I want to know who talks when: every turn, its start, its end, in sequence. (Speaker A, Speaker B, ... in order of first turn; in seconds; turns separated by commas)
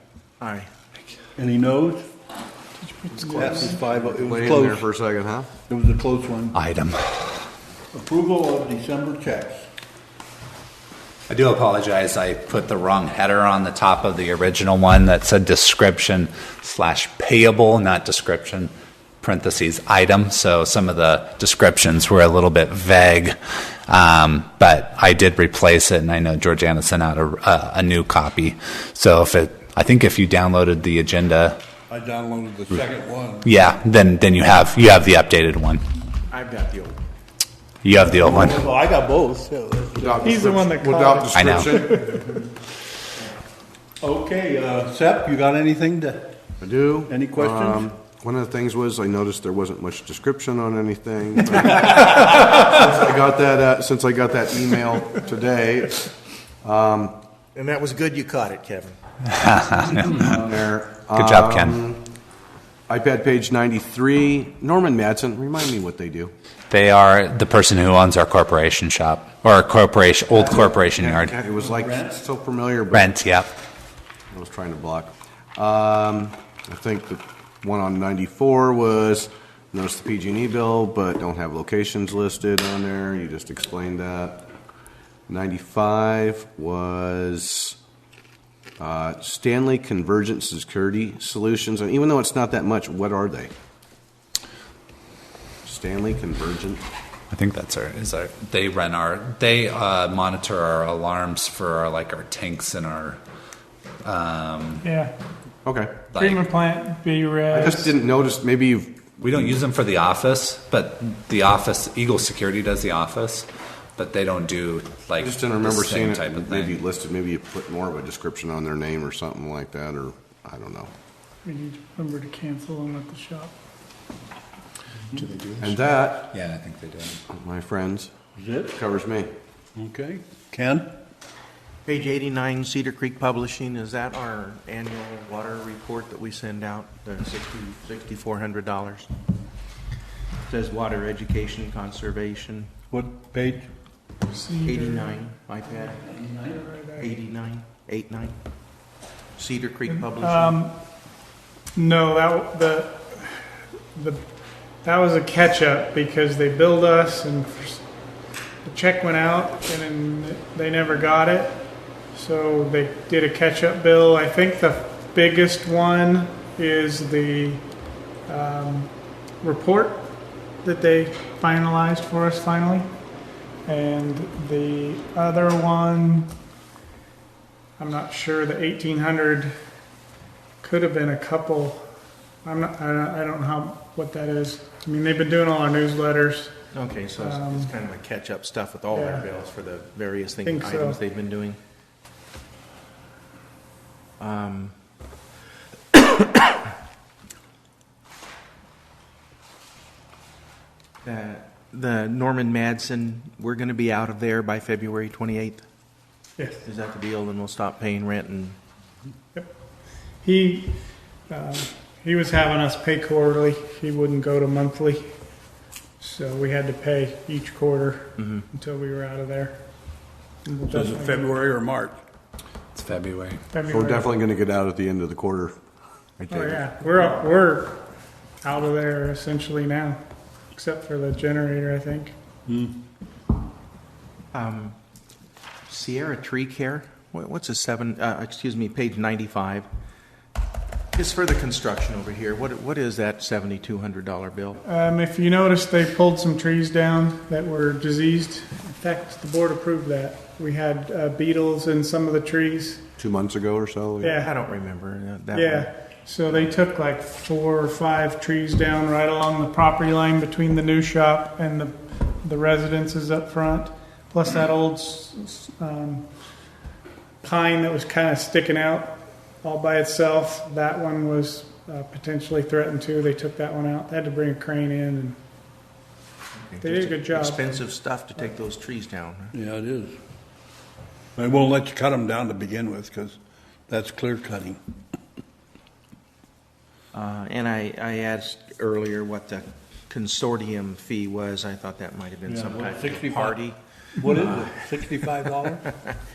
Speaker A: 0.4-0.7, Speaker B: 1.4-2.0, Speaker C: 2.8-3.9, Speaker B: 3.2-4.8, Speaker D: 4.1-5.5, Speaker B: 5.7-6.6, Speaker E: 6.5-7.5, Speaker B: 7.9-9.7, Speaker E: 11.3-23.4, Speaker E: 23.9-31.6, Speaker B: 31.9-33.5, Speaker E: 33.4-35.8, Speaker A: 36.3-37.0, Speaker E: 37.8-38.7, Speaker B: 38.0-40.5, Speaker D: 40.0-42.0, Speaker C: 40.2-42.4, Speaker E: 41.3-41.8, Speaker B: 44.0-46.4, Speaker D: 46.6-56.0, Speaker B: 47.1-47.8, Speaker D: 56.6-57.1, Speaker A: 57.5-59.0, Speaker E: 59.2-60.3, Speaker D: 60.1-62.0, Speaker E: 61.1-61.8, Speaker D: 62.9-66.3, Speaker E: 66.7-71.3, Speaker D: 70.4-73.1, Speaker B: 71.5-72.2, Speaker E: 72.9-73.5, Speaker D: 74.3-84.5, Speaker D: 85.3-87.8, Speaker D: 88.8-93.5, Speaker D: 95.6-96.8, Speaker E: 97.3-103.2, Speaker E: 104.0-104.8, Speaker C: 104.8-105.1, Speaker D: 105.6-106.0, Speaker E: 106.1-106.5, Speaker C: 106.2-108.0, Speaker D: 107.5-109.6, Speaker E: 109.2-116.8, Speaker D: 115.2-120.9, Speaker C: 121.4-123.5, Speaker E: 125.1-125.8, Speaker D: 125.6-126.3, Speaker E: 126.3-127.2, Speaker D: 127.3-128.1, Speaker B: 128.4-128.7, Speaker D: 128.7-129.3, Speaker B: 129.8-130.9, Speaker A: 131.8-139.1, Speaker A: 140.5-142.7, Speaker B: 142.9-143.7, Speaker C: 144.3-145.2, Speaker A: 144.6-146.1, Speaker C: 146.4-147.1, Speaker A: 147.0-148.3, Speaker A: 149.4-150.6, Speaker C: 149.9-150.8, Speaker C: 151.7-154.2, Speaker C: 154.8-157.8, Speaker C: 158.6-167.7, Speaker C: 168.3-172.9, Speaker C: 173.7-176.3, Speaker C: 177.8-179.5, Speaker C: 180.6-181.9, Speaker C: 182.4-186.6, Speaker A: 186.7-191.6, Speaker C: 187.2-187.7, Speaker C: 188.9-189.3, Speaker C: 190.4-191.0, Speaker A: 194.2-194.7, Speaker A: 195.9-196.4, Speaker A: 201.0-205.6, Speaker C: 206.4-206.6, Speaker A: 206.6-208.6, Speaker C: 210.2-210.8, Speaker C: 211.3-215.1, Speaker C: 216.0-219.6, Speaker A: 218.2-218.4, Speaker C: 220.4-221.3, Speaker B: 220.7-222.0, Speaker E: 222.7-223.4, Speaker C: 223.5-224.2, Speaker D: 223.7-225.6, Speaker A: 226.2-226.7, Speaker C: 226.3-227.9, Speaker C: 228.4-230.0, Speaker C: 230.5-232.1, Speaker B: 232.5-232.8, Speaker A: 234.3-234.8, Speaker A: 235.7-239.7, Speaker A: 240.9-244.6, Speaker C: 244.6-252.8, Speaker D: 253.0-254.2, Speaker C: 254.0-254.3, Speaker A: 254.1-255.7, Speaker C: 255.3-266.1, Speaker C: 267.2-275.2, Speaker A: 276.5-279.3, Speaker C: 276.6-277.6, Speaker B: 279.3-280.0, Speaker B: 281.1-284.6, Speaker A: 286.9-296.0, Speaker B: 292.2-293.4, Speaker B: 294.0-295.7